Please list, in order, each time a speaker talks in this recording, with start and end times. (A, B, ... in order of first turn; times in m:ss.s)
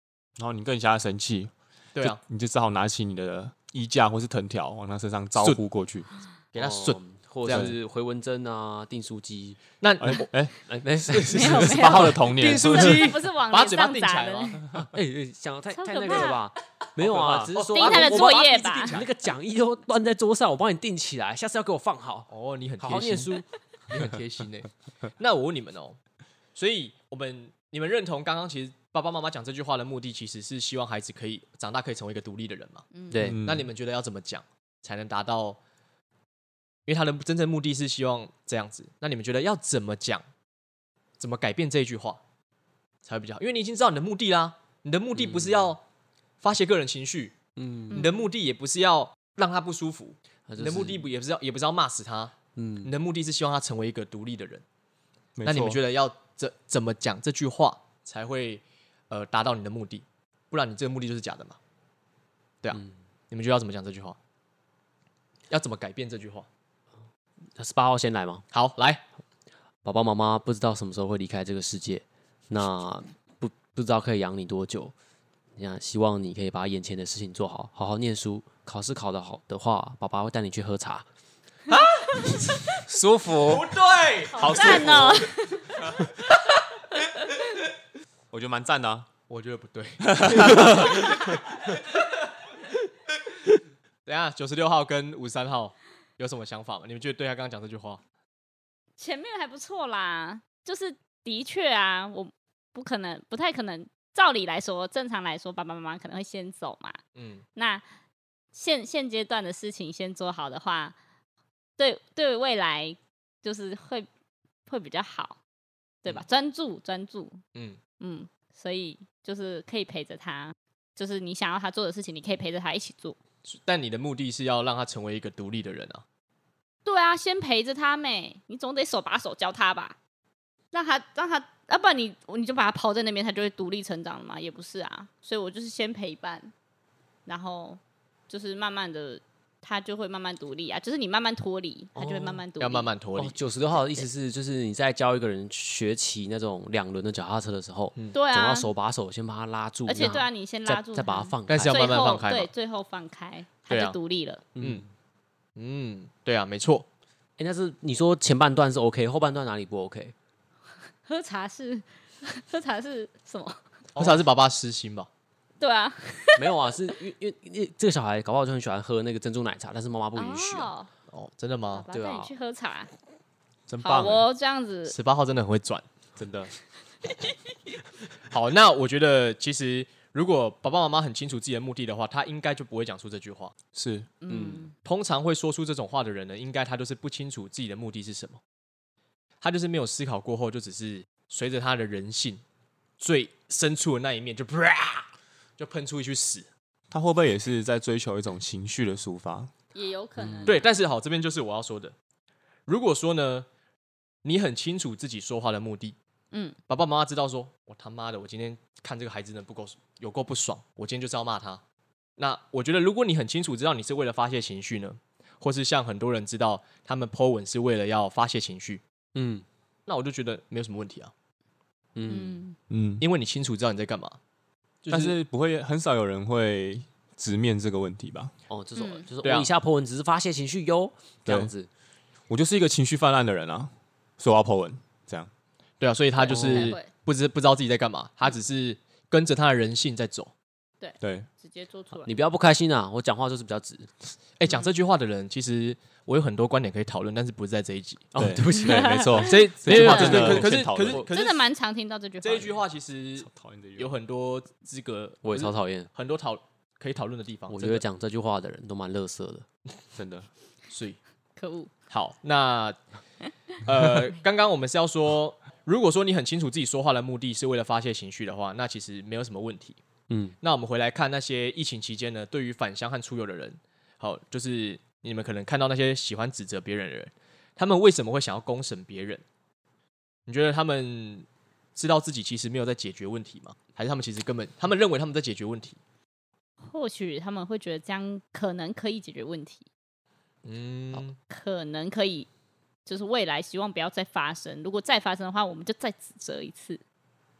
0:00.4-0:06.1 A
0:06.5-0:07.7 B
0:06.5-0:09.6 C
0:07.5-0:07.7 A
0:09.8-0:10.3 B
0:10.0-0:10.6 A
0:10.6-0:12.2 C
0:11.1-0:14.6 B
0:11.3-0:14.8 D
0:11.5-0:13.0 A
0:14.7-0:22.3 C
0:15.7-0:16.4 D
0:17.0-0:17.5 A
0:17.5-0:19.0 B
0:17.7-0:19.0 D
0:22.3-0:26.0 B
0:22.8-0:23.4 C
0:26.6-0:32.9 B
0:32.9-0:33.3 D
0:33.1-0:33.4 C
0:33.1-0:33.6 A
0:33.4-0:35.6 B
0:36.8-0:40.2 B
0:41.2-0:42.2 B
0:43.0-0:45.8 B
0:45.2-0:45.7 C
0:46.4-0:47.4 B
0:47.6-0:48.1 C
0:47.9-0:54.6 B
0:47.9-0:48.2 D
0:50.5-0:51.0 C
0:52.6-0:52.9 C
0:55.4-0:55.8 A
0:55.4-1:01.6 B
1:02.6-1:04.2 B
1:05.5-1:06.5 B
1:07.6-1:08.4 C
1:08.5-1:09.0 B
1:09.8-1:14.9 C
1:15.6-1:21.0 C
1:21.7-1:22.1 B
1:22.6-1:23.7 A
1:23.4-1:24.9 B
1:24.3-1:25.7 D
1:24.3-1:26.1 A
1:28.3-1:29.1 A
1:29.3-1:31.4 B
1:30.0-1:31.1 A
1:34.0-1:38.0 B
1:39.0-1:47.0 D
1:47.1-1:47.4 B
1:47.6-1:47.8 D
1:48.5-1:51.0 D
1:51.8-1:54.1 D
1:54.7-1:55.4 D
1:56.0-1:57.4 D
1:58.0-2:03.2 D
2:03.4-2:06.0 B
2:06.8-2:10.0 D
2:10.7-2:16.5 D
2:17.2-2:22.9 D
2:22.0-2:22.4 C
2:22.6-2:23.4 B
2:23.2-2:32.1 C
2:23.8-2:24.0 D
2:28.1-2:28.7 D
2:29.8-2:34.4 D
2:31.5-2:32.5 B
2:33.7-2:34.0 B
2:34.6-2:34.8 C
2:34.6-2:34.8 B
2:35.6-2:36.8 B
2:37.4-2:40.1 C
2:41.1-2:43.6 D
2:43.9-2:45.1 B
2:45.6-2:46.7 D
2:46.4-2:50.7 C
2:50.2-2:50.9 D
2:51.1-2:51.8 B
2:51.7-2:52.9 D
2:51.9-2:52.3 C
2:53.7-2:54.2 A
2:53.8-2:54.9 D
2:54.9-2:55.8 B
2:56.2-2:56.5 A
2:58.3-3:03.5 B
3:03.7-3:04.1 A
3:04.2-3:04.7 D
3:04.3-3:04.7 C
3:04.8-3:08.4 B
3:09.4-3:12.4 B
3:13.0-3:16.5 B
3:16.9-3:19.5 A
3:19.7-3:20.7 D
3:20.2-3:20.6 C
3:20.4-3:21.9 B
3:22.7-3:23.5 B
3:24.2-3:26.0 B
3:26.3-3:26.6 D
3:26.7-3:31.6 B
3:32.2-3:38.8 B
3:39.1-3:39.4 C
3:39.9-3:41.1 B
3:41.9-3:42.4 C
3:42.0-3:42.6 D
3:42.7-3:43.0 A
3:43.0-3:44.2 B
3:44.8-3:45.2 B
3:44.9-3:48.3 A
3:48.5-3:51.7 C
3:48.8-3:49.0 D
3:49.2-3:49.5 B
3:51.2-3:51.5 A
3:52.3-3:55.3 A
3:55.8-4:00.3 B
3:56.2-3:56.8 C
3:56.2-3:56.9 D
4:00.8-4:02.1 D
4:01.0-4:01.3 A
4:02.0-4:03.9 C
4:04.4-4:08.1 B
4:08.1-4:11.0 C
4:08.2-4:11.0 A
4:08.6-4:10.4 D
4:09.2-4:11.4 B
4:11.1-4:12.6 D
4:12.2-4:17.8 B
4:13.2-4:13.9 A
4:15.2-4:15.9 C
4:17.5-4:19.4 C
4:19.9-4:20.3 A
4:20.7-4:21.0 B
4:21.4-4:21.7 D
4:21.9-4:22.8 B
4:23.6-4:29.8 B
4:30.1-4:30.3 C
4:30.4-4:39.2 B
4:40.3-4:45.8 B
4:46.6-4:49.6 D
4:50.4-4:51.2 B
4:51.3-4:52.3 D
4:52.8-4:56.8 D